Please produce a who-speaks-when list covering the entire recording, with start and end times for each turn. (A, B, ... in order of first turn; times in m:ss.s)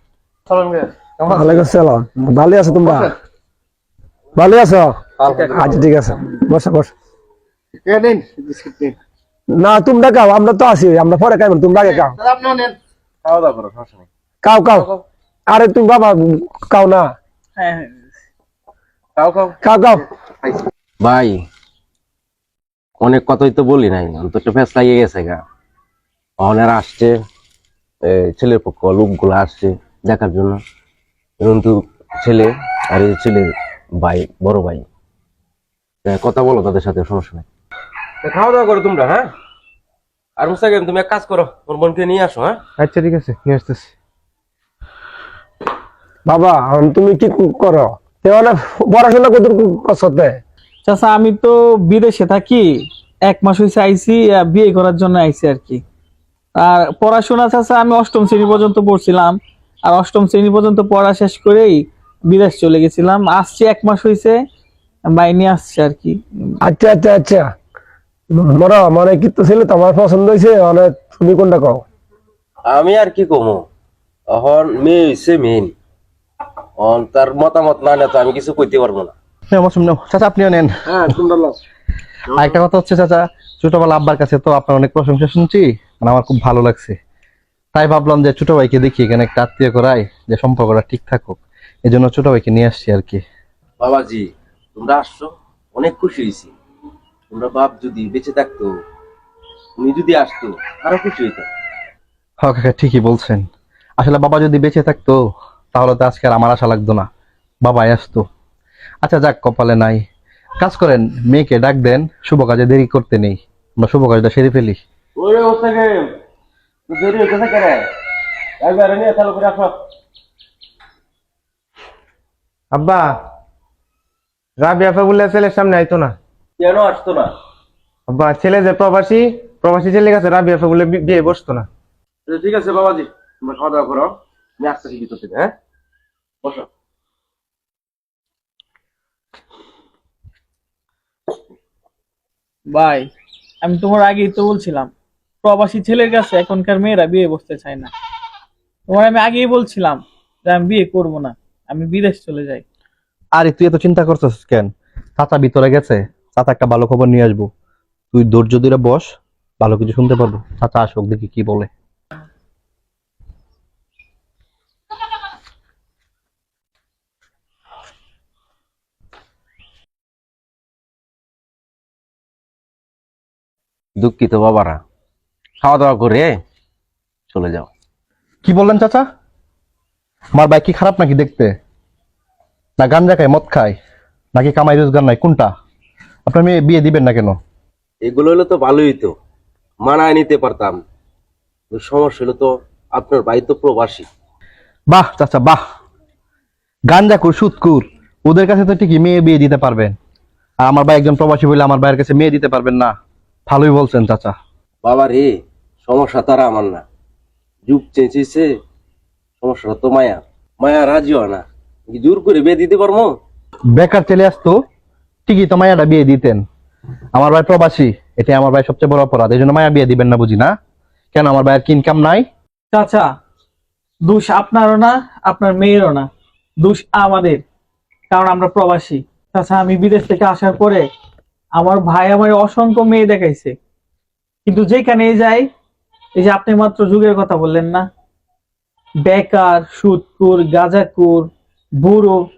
0:00.5-0:01.5 A
0:01.2-0:03.1 B
0:04.3-0:06.9 B
0:05.2-0:05.6 A
0:07.8-0:08.9 A
0:09.5-0:12.2 B
0:11.9-0:12.7 A
0:13.2-0:14.0 C
0:14.4-0:14.9 B
0:14.8-0:15.0 C
0:15.5-0:17.1 B
0:17.6-0:18.2 D
0:19.2-0:19.6 C
0:19.6-0:20.0 B
0:21.0-0:21.4 C
0:23.0-0:25.4 C
0:26.4-0:27.1 C
0:28.0-0:30.6 C
0:31.4-0:34.8 C
0:36.0-0:37.4 C
0:38.2-0:39.3 C
0:40.4-0:42.6 C
0:42.8-0:43.9 E
0:46.2-0:50.4 B
0:50.8-0:55.8 D
0:56.6-1:04.4 D
1:05.1-1:06.5 D
1:06.6-1:07.5 B
1:08.3-1:11.8 B
1:12.7-1:13.6 C
1:14.3-1:15.7 C
1:16.8-1:19.1 C
1:19.5-1:20.7 A
1:20.9-1:21.6 C
1:22.3-1:22.6 C
1:22.3-1:27.0 A
1:27.7-1:33.2 A
1:33.8-1:34.2 C
1:34.8-1:36.5 C
1:37.3-1:38.7 C
1:39.8-1:41.5 C
1:42.4-1:43.5 A
1:44.0-1:45.2 A
1:45.7-1:47.1 A
1:47.6-1:48.2 A
1:49.0-1:50.0 A
1:50.6-1:54.8 A
1:55.2-1:55.9 C
1:56.9-1:57.8 C
1:58.6-1:59.7 C
2:02.7-2:03.1 E
2:04.6-2:06.1 E
2:06.6-2:07.3 C
2:08.1-2:11.7 E
2:12.3-2:15.5 C
2:22.7-2:23.1 D
2:23.6-2:24.9 D
2:25.4-2:27.9 D
2:28.9-2:32.6 D
2:33.4-2:37.5 A
2:38.1-2:41.7 A
2:54.0-2:54.8 C
2:55.6-2:56.4 C
2:57.3-2:57.7 C
2:58.4-2:59.0 A
3:00.4-3:01.5 A
3:02.8-3:03.7 A
3:04.3-3:05.5 A
3:06.2-3:07.4 A
3:08.0-3:09.1 C
3:09.8-3:10.8 C
3:11.7-3:14.1 C
3:14.9-3:15.6 A
3:16.9-3:20.0 A
3:20.6-3:22.9 A
3:23.5-3:24.3 A
3:24.8-3:25.3 C
3:25.8-3:26.8 C
3:27.7-3:28.5 C
3:29.4-3:33.2 C
3:33.8-3:34.6 A
3:35.3-3:36.4 A
3:37.1-3:40.5 A
3:41.1-3:42.2 A
3:42.7-3:43.1 D
3:44.0-3:46.1 D
3:46.6-3:47.4 D
3:48.1-3:50.8 D
3:51.6-3:53.5 D
3:54.4-3:55.5 D
3:56.2-3:57.8 D
3:59.0-4:01.3 D
4:01.8-4:02.2 D